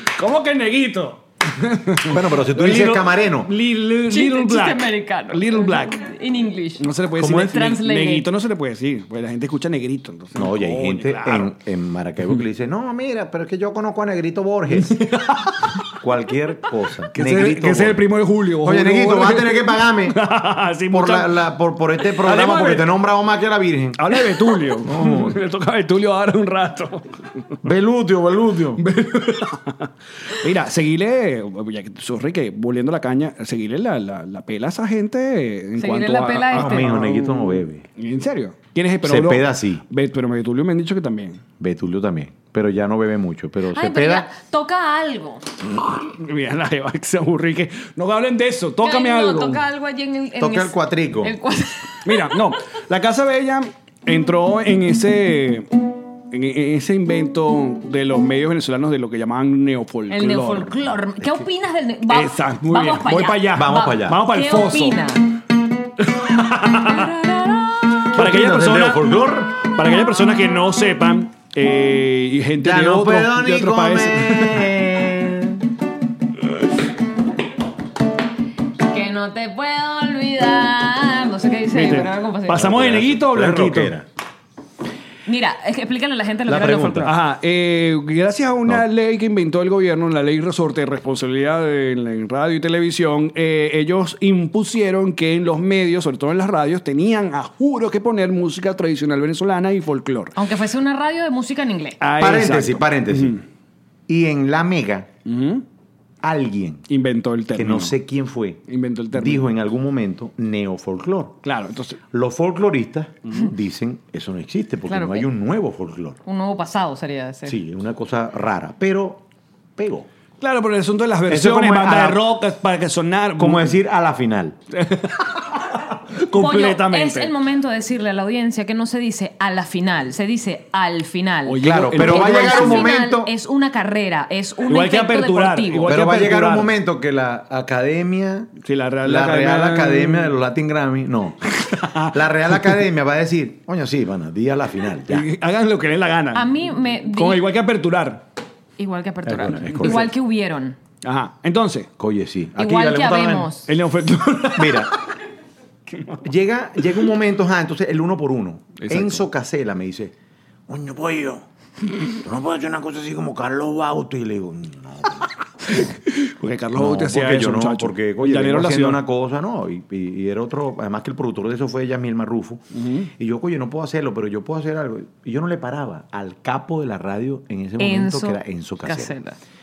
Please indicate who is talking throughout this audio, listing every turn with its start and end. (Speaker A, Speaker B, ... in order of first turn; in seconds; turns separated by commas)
Speaker A: 0.2-6.1, Speaker B: 2.1-3.5, Speaker C: 4.1-6.9, Speaker A: 6.8-11.6, Speaker B: 7.2-7.6, Speaker C: 7.5-8.3, Speaker B: 10.3-15.0, Speaker A: 14.8-15.8, Speaker B: 15.9-18.1, Speaker A: 17.1-21.4, Speaker B: 18.6-20.2, Speaker B: 20.9-24.2, Speaker A: 22.0-22.9, Speaker A: 24.0-27.6, Speaker B: 24.8-25.4, Speaker B: 27.6-28.8, Speaker A: 28.8-41.4, Speaker C: 35.8-37.0, Speaker B: 36.5-37.9, Speaker B: 39.0-39.8, Speaker B: 41.6-44.3, Speaker C: 43.7-45.4, Speaker A: 45.8-49.6, Speaker C: 48.8-52.3, Speaker B: 50.4-51.4, Speaker A: 52.0-55.7, Speaker A: 56.3-61.3, Speaker C: 60.1-65.3, Speaker A: 62.1-65.0, Speaker B: 63.5-64.2, Speaker A: 66.0-67.1, Speaker C: 66.8-68.0, Speaker A: 68.0-74.8, Speaker B: 68.1-69.6, Speaker B: 72.6-75.7, Speaker C: 78.9-82.6, Speaker A: 81.7-83.9, Speaker B: 82.5-84.1, Speaker C: 85.3-87.1, Speaker B: 86.5-87.1, Speaker A: 87.0-100.4, Speaker C: 100.3-102.0, Speaker A: 102.0-103.4, Speaker B: 102.2-103.4, Speaker B: 104.1-105.1, Speaker A: 105.3-105.6, Speaker B: 106.2-106.9, Speaker A: 106.9-107.9, Speaker B: 107.5-108.6, Speaker A: 108.7-109.5, Speaker B: 109.1-111.4, Speaker A: 111.4-112.0, Speaker B: 112.1-116.2, Speaker C: 114.9-115.3, Speaker C: 116.3-117.6, Speaker B: 117.5-119.2, Speaker B: 119.8-120.1, Speaker A: 120.4-123.8, Speaker B: 121.3-122.3, Speaker B: 123.4-124.6, Speaker A: 124.7-127.3, Speaker C: 126.3-135.9, Speaker A: 131.5-132.9, Speaker B: 131.6-133.3, Speaker A: 134.7-136.7, Speaker B: 135.9-138.5, Speaker A: 138.6-140.3, Speaker B: 139.0-141.4, Speaker A: 141.6-142.8, Speaker B: 142.1-145.3, Speaker A: 145.1-148.2, Speaker C: 146.3-147.4, Speaker C: 148.8-150.8, Speaker B: 149.3-150.1, Speaker A: 149.7-149.9, Speaker A: 151.0-151.9, Speaker B: 152.0-153.6, Speaker C: 152.6-153.7, Speaker A: 153.7-155.0, Speaker B: 154.6-154.9, Speaker A: 155.9-156.2, Speaker B: 156.2-160.1, Speaker A: 158.8-159.2, Speaker B: 160.7-165.9, Speaker A: 165.7-169.0, Speaker B: 166.8-172.6, Speaker A: 172.7-173.1, Speaker B: 173.2-179.2, Speaker C: 177.8-179.4